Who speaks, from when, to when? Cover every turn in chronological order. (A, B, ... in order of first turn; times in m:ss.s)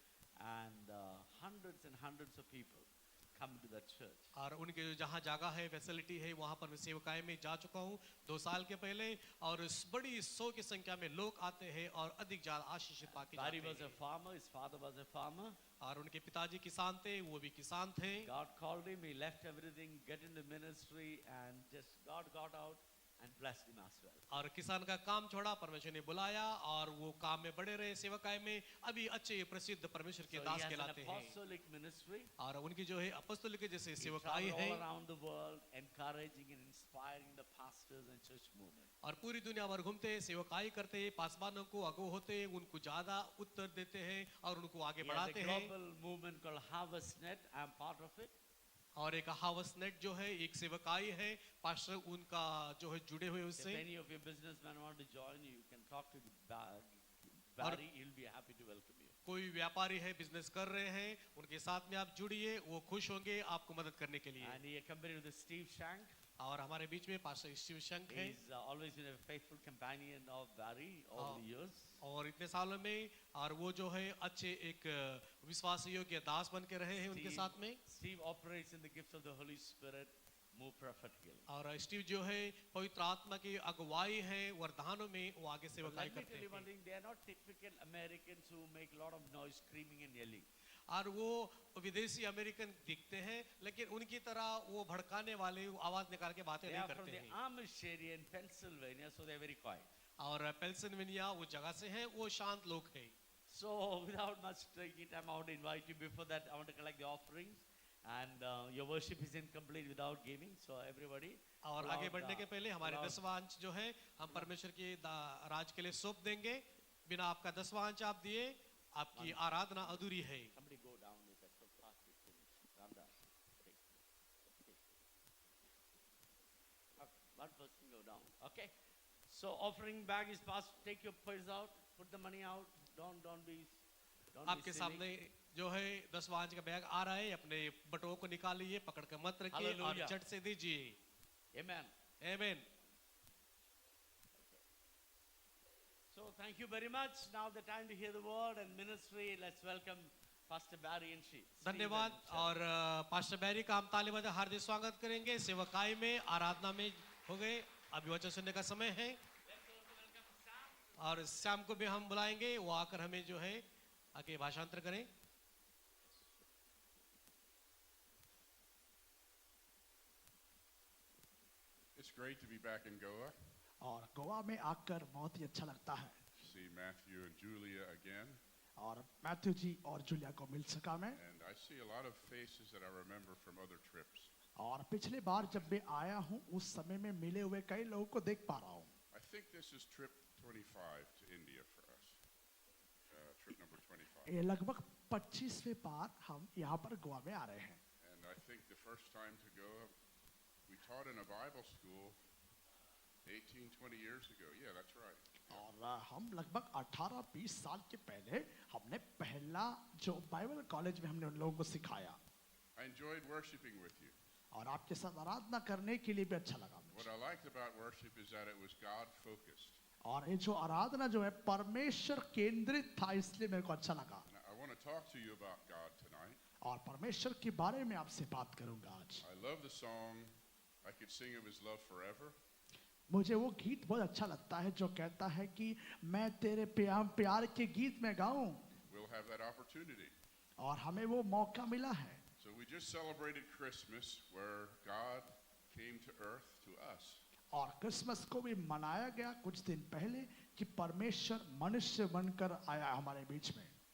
0:00.4-0:04.3 A
0:04.4-0:14.0 B
0:13.0-0:15.6 A
0:15.8-0:18.3 B
0:18.2-0:24.2 A
0:24.3-0:31.4 B
0:30.3-0:32.3 A
0:32.4-0:34.8 B
0:34.0-0:38.9 A
0:39.0-0:45.7 B
0:45.0-0:48.3 A
0:49.0-0:53.8 B
0:53.6-0:59.2 A
0:59.3-1:04.6 B
1:04.4-1:06.2 A
1:06.4-1:08.4 B
1:08.1-1:12.0 A
1:11.2-1:11.4 B
1:12.0-1:17.8 B
1:17.1-1:21.5 A
1:21.5-1:26.7 B
1:25.8-1:30.5 A
1:30.9-1:37.4 B
1:36.6-1:39.9 A
1:40.2-1:43.1 B
1:43.5-1:53.2 A
1:51.6-2:00.5 B
1:59.2-2:04.8 A
2:07.0-2:08.7 A
2:09.3-2:13.8 A
2:14.3-2:15.1 A
2:14.5-2:21.0 B
2:19.5-2:20.2 A
2:21.5-2:21.9 A
2:22.2-2:22.7 B
2:24.4-2:24.6 A
2:26.1-2:32.6 A
2:31.6-2:39.2 B
2:39.5-2:41.0 A
2:41.0-2:45.1 B
2:52.0-2:53.4 C
2:53.8-2:56.2 D
2:56.4-2:58.4 C
2:58.8-3:01.2 D
3:01.1-3:04.3 C
3:04.6-3:08.9 D
3:05.4-3:05.7 C
3:09.1-3:12.2 C
3:13.1-3:14.4 C
3:14.3-3:17.8 D
3:18.0-3:19.9 C
3:20.7-3:22.2 C
3:23.3-3:25.7 C
3:25.5-3:32.2 D
3:32.8-3:34.2 C
3:34.5-3:37.1 D
3:36.9-3:39.8 C
3:40.0-3:44.3 D
3:44.3-3:46.4 C
3:46.6-3:49.2 D
3:49.2-3:52.4 C
3:53.1-3:58.8 D
3:58.9-4:00.1 C
4:00.6-4:02.2 D
4:02.4-4:07.2 C
4:07.5-4:13.7 D